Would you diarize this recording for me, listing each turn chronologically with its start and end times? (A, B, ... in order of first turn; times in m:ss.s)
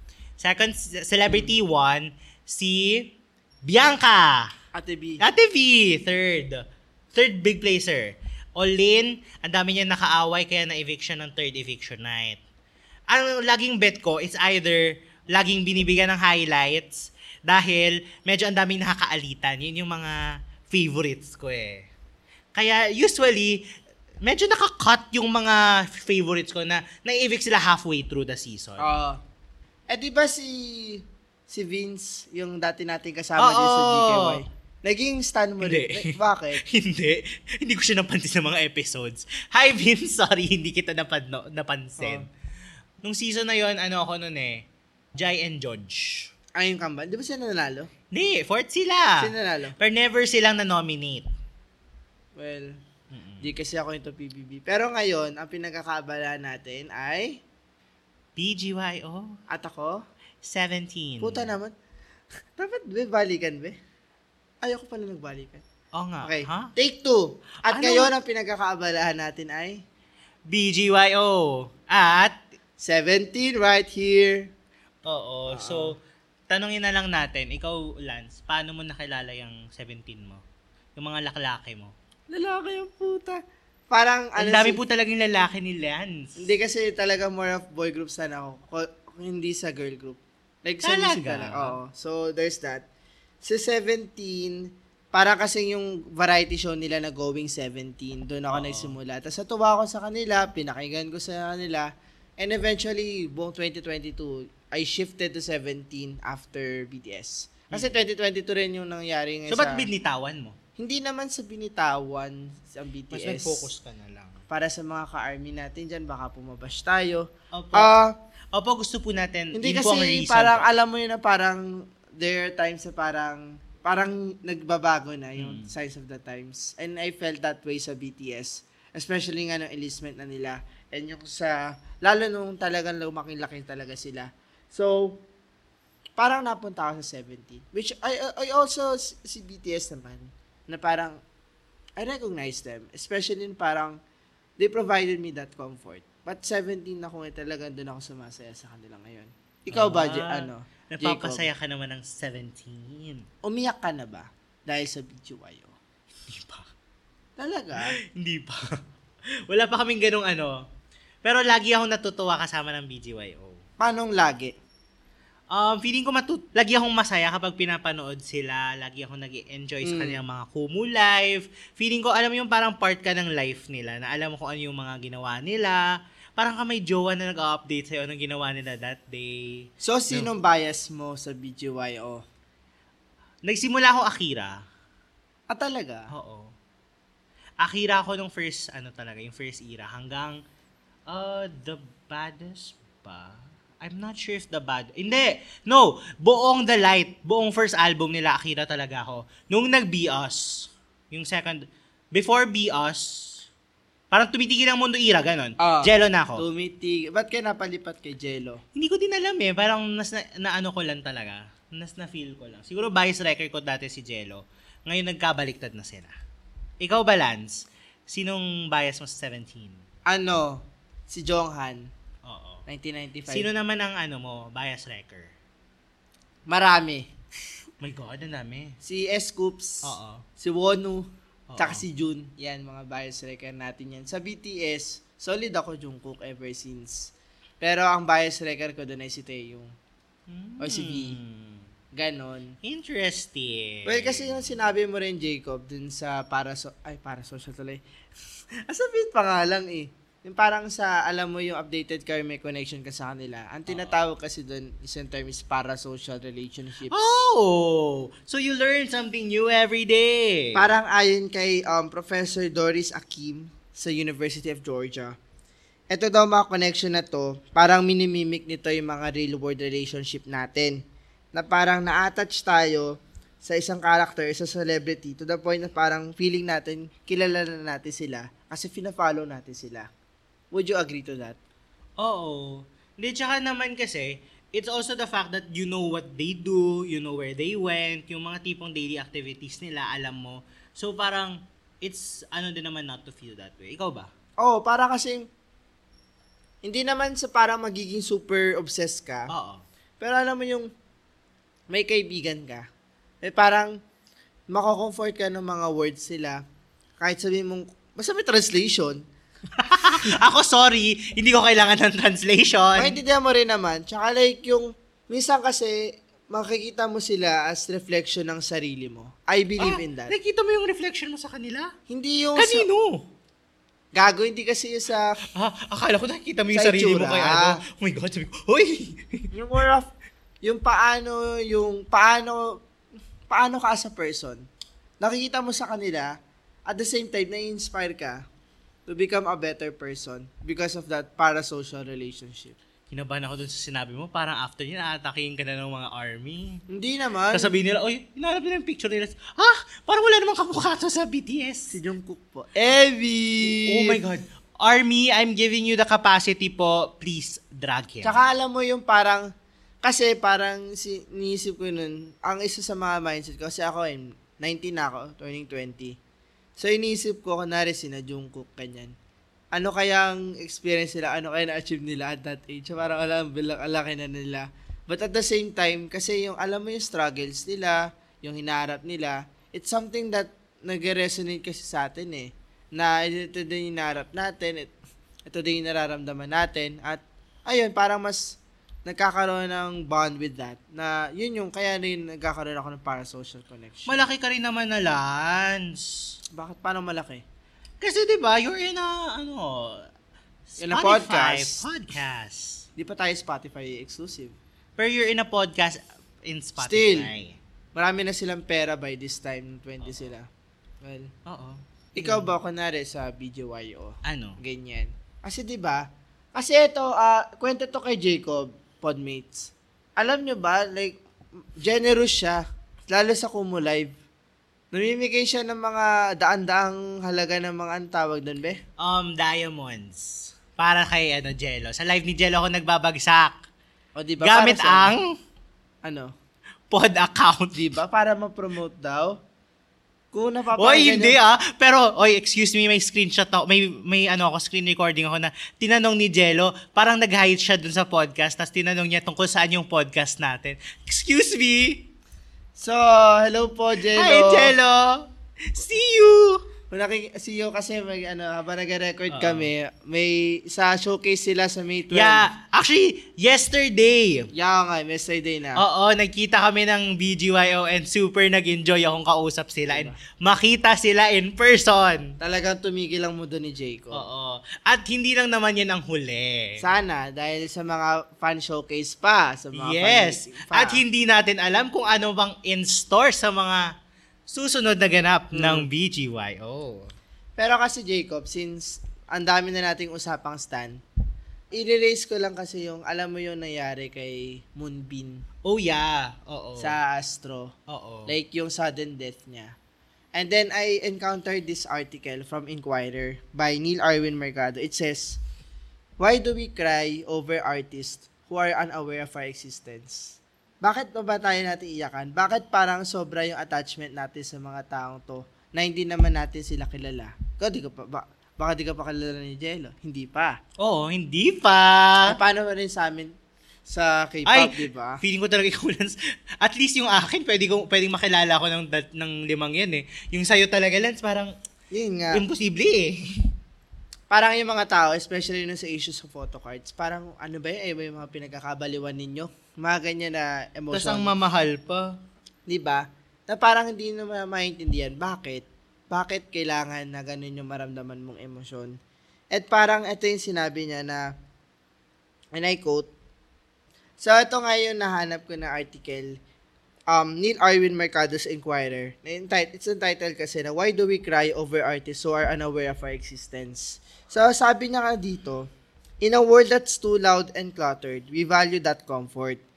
0:00.4-0:04.5 A
0:04.7-0:05.2 B
0:05.2-0:12.4 A
0:13.1-0:21.9 A
0:22.5-0:23.6 A
0:24.2-0:29.0 A
0:28.8-0:29.2 B
0:29.9-0:36.6 B
0:33.4-0:34.4 A
0:35.6-0:42.3 A
0:42.0-0:42.2 B
0:43.0-0:46.3 A
0:46.6-0:47.9 B
0:48.1-0:51.3 A
0:49.2-0:49.7 B
0:52.4-0:52.8 B
0:53.1-0:53.5 A
0:53.4-0:57.4 B
0:58.4-0:59.4 A
0:59.5-1:00.0 B
1:00.4-1:01.5 A
1:01.2-1:01.7 B
1:02.6-1:03.7 B
1:04.6-1:05.6 B
1:05.9-1:06.7 A
1:06.2-1:09.8 B
1:07.6-1:08.1 A
1:10.5-1:12.4 A
1:12.8-1:14.5 B
1:15.0-1:16.0 A
1:15.5-1:16.0 B
1:16.5-1:20.4 A
1:21.0-1:21.9 A
1:22.3-1:24.8 B
1:24.4-1:26.4 A
1:26.4-1:32.9 B
1:30.8-1:31.8 A
1:33.4-1:49.9 B
1:38.5-1:39.0 A
1:47.7-1:48.0 A
1:49.5-1:50.6 A
1:50.8-1:53.7 B
1:53.1-1:54.4 A
1:54.5-1:58.1 B
1:57.5-1:57.9 A
1:58.5-2:00.7 A
1:59.5-2:15.2 B
2:05.4-2:05.7 A
2:16.2-2:21.2 B
2:22.0-2:24.0 B
2:24.6-2:31.4 B
2:29.7-2:33.2 A
2:33.4-2:35.7 B
2:36.3-2:36.7 A
2:37.4-2:37.9 B
2:38.1-2:38.6 A
2:39.5-2:40.6 A
2:41.2-2:43.6 A
2:43.8-2:44.5 B
2:45.5-2:55.9 A
2:49.8-2:50.2 B
2:56.4-3:00.3 A
2:59.8-3:02.2 B
3:03.4-3:04.6 A
3:05.5-3:06.1 B
3:06.1-3:06.5 A
3:07.6-3:10.4 A
3:11.1-3:23.5 A
3:24.1-3:26.4 A
3:25.6-3:28.6 B
3:28.7-3:36.1 A
3:36.8-3:39.8 A
3:40.1-3:41.9 B
3:42.2-3:42.6 A
3:42.7-3:43.5 B
3:43.3-3:45.3 A
3:46.5-3:47.1 B
3:47.8-3:48.8 A
3:48.8-3:51.1 B
3:49.8-3:50.2 A
3:51.5-3:51.8 A
3:51.6-3:59.7 B
4:00.3-4:01.6 A
4:00.6-4:01.2 B
4:01.9-4:02.5 B
4:02.6-4:04.6 A
4:03.8-4:07.8 B
4:08.6-4:17.0 B
4:13.7-4:13.9 A
4:16.9-4:20.7 A
4:20.5-4:25.1 B
4:25.9-4:30.8 B
4:31.3-4:39.9 B
4:40.5-4:41.4 B
4:42.0-4:54.1 A
4:54.4-4:55.3 B
4:56.6-4:59.3 B
4:59.3-4:59.6 A
5:00.0-5:00.7 B
5:01.7-5:02.6 B
5:03.2-5:03.7 B
5:04.5-5:06.4 B
5:07.0-5:09.0 B
5:09.6-5:13.0 A
5:12.8-5:20.1 B
5:19.6-5:21.7 A
5:21.9-5:22.7 B
5:22.4-5:23.0 A
5:23.9-5:25.2 B
5:25.3-5:29.3 A
5:26.5-5:27.6 B
5:29.3-5:29.9 B
5:30.4-5:32.6 B
5:33.3-5:34.4 B
5:35.0-5:36.1 B
5:36.7-5:38.2 B
5:38.9-5:42.6 B
5:42.9-5:46.6 A
5:46.7-5:47.6 B
5:47.3-5:51.8 A
5:51.7-5:54.0 B
5:53.4-5:58.2 A
5:58.0-5:59.3 B
5:59.8-6:06.0 B
6:06.6-6:08.9 B
6:09.5-6:24.7 B
6:25.2-6:34.0 B
6:33.8-6:36.2 A
6:36.3-6:37.2 B
6:37.8-6:39.9 A
6:40.5-6:42.6 A
6:40.6-6:41.6 B
6:42.8-6:44.4 B
6:44.8-6:47.4 A
6:46.6-6:47.1 B
6:47.7-6:50.3 B
6:50.8-6:51.1 B
6:51.2-6:52.3 A
6:51.9-7:01.0 B
6:54.0-6:54.4 A
7:01.6-7:03.9 B
7:04.7-7:08.6 B
7:08.8-7:13.4 A
7:14.0-7:14.9 B
7:14.2-7:15.1 A
7:15.8-7:16.1 B
7:16.7-7:17.7 A
7:17.5-7:19.1 B
7:20.1-7:21.2 B
7:20.5-7:31.9 A
7:32.6-7:34.6 B
7:33.8-7:36.4 A
7:36.7-7:42.3 B
7:39.1-7:39.5 A
7:41.9-7:44.3 A
7:44.3-7:45.6 B
7:45.6-7:52.2 A
7:49.7-7:50.0 B
7:52.2-7:54.1 B
7:53.9-7:56.6 A
7:56.6-8:00.8 B
7:59.5-8:03.6 A
8:04.3-8:06.9 A
8:05.3-8:05.7 B
8:07.4-8:10.8 B
8:11.5-8:15.2 B
8:15.4-8:16.7 A
8:16.6-8:17.5 B
8:17.7-8:18.1 A
8:18.1-8:19.5 B
8:20.1-8:25.2 B
8:26.0-8:40.4 B
8:40.6-8:42.2 A
8:42.1-8:43.1 B
8:43.6-8:45.0 B
8:44.3-8:51.3 A
8:51.7-8:52.2 B
8:52.1-8:53.0 A
8:54.1-9:01.1 B
9:00.7-9:02.0 A
9:02.5-9:08.8 B
9:09.3-9:11.1 B
9:12.4-9:12.9 B
9:14.0-9:16.1 B
9:16.9-9:25.5 B
9:26.0-9:29.4 B